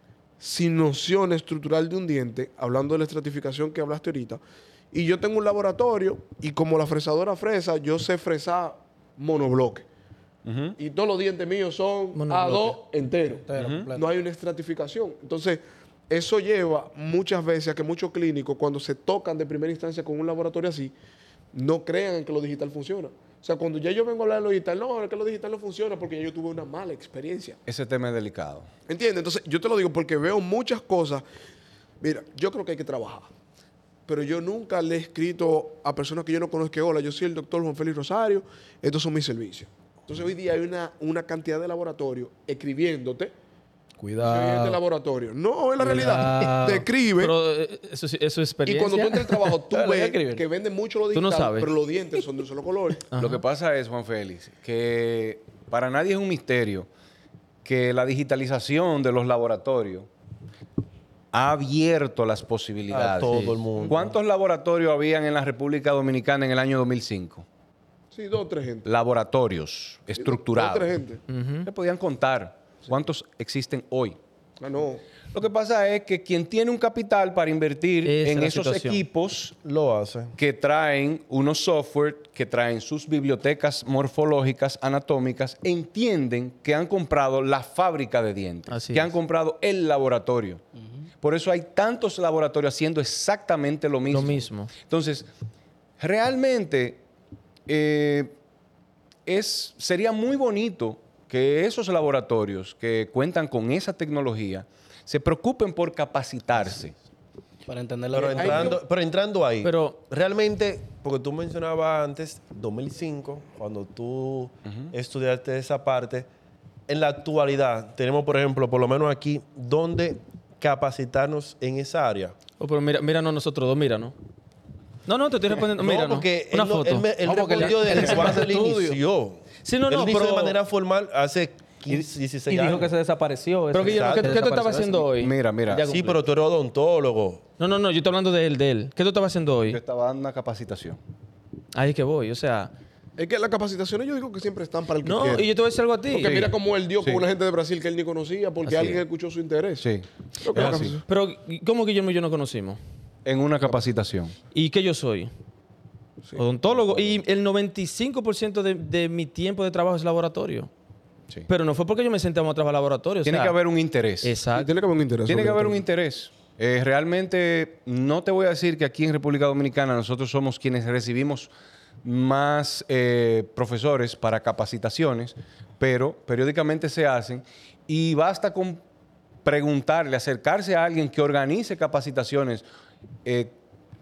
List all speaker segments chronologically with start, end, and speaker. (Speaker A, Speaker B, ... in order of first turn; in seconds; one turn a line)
Speaker A: 0.4-4.4
Speaker A: 4.9-9.8
Speaker B: 10.4-10.8
Speaker A: 10.8-20.9
Speaker C: 12.1-12.8
Speaker D: 13.4-14.1
Speaker B: 13.6-13.9
Speaker A: 21.5-27.6
Speaker B: 27.6-28.7
Speaker A: 28.9-31.2
Speaker A: 32.0-33.3
Speaker A: 34.1-43.3
Speaker D: 44.0-44.8
Speaker A: 44.2-47.3
Speaker D: 45.8-46.9
Speaker C: 47.2-49.6
Speaker A: 48.6-53.0
Speaker D: 49.7-50.4
Speaker C: 51.1-51.7
Speaker C: 53.1-53.4
Speaker B: 53.2-56.9
Speaker B: 57.6-60.1
Speaker B: 61.3-67.5
Speaker E: 62.9-64.1
Speaker A: 68.1-68.8
Speaker B: 68.8-70.9
Speaker A: 70.2-71.2
Speaker C: 71.3-71.7
Speaker B: 71.6-74.2
Speaker A: 74.6-75.0
Speaker B: 75.3-79.6
Speaker C: 78.0-79.0
Speaker E: 79.6-80.3
Speaker B: 80.4-90.6
Speaker C: 88.7-89.1
Speaker B: 91.2-95.3
Speaker C: 94.1-94.7
Speaker B: 96.0-97.0
Speaker B: 97.7-98.3
Speaker B: 99.2-106.9
Speaker D: 107.7-108.8
Speaker E: 108.1-116.3
Speaker A: 108.4-108.8
Speaker C: 109.6-110.0
Speaker E: 116.9-122.3
Speaker C: 122.6-124.1
Speaker C: 125.1-128.4
Speaker E: 125.7-132.9
Speaker D: 127.2-129.0
Speaker C: 129.6-130.6
Speaker D: 132.5-135.1
Speaker C: 133.7-136.2
Speaker E: 133.7-134.4
Speaker B: 135.2-135.9
Speaker E: 135.8-137.4
Speaker C: 137.6-139.8
Speaker B: 139.7-141.0
Speaker C: 141.7-142.7
Speaker A: 143.2-145.5
Speaker C: 145.0-146.5
Speaker A: 146.1-149.9
Speaker B: 146.2-146.5
Speaker C: 148.6-149.0
Speaker B: 149.8-151.0
Speaker A: 150.4-151.0
Speaker C: 150.6-152.8
Speaker B: 153.2-154.3
Speaker C: 154.5-155.3
Speaker C: 156.3-160.7
Speaker C: 161.5-163.5
Speaker B: 163.2-164.4
Speaker C: 164.2-164.7
Speaker A: 164.5-165.8
Speaker B: 165.3-171.5
Speaker B: 172.0-178.8
Speaker B: 179.4-182.6
Speaker B: 183.2-183.5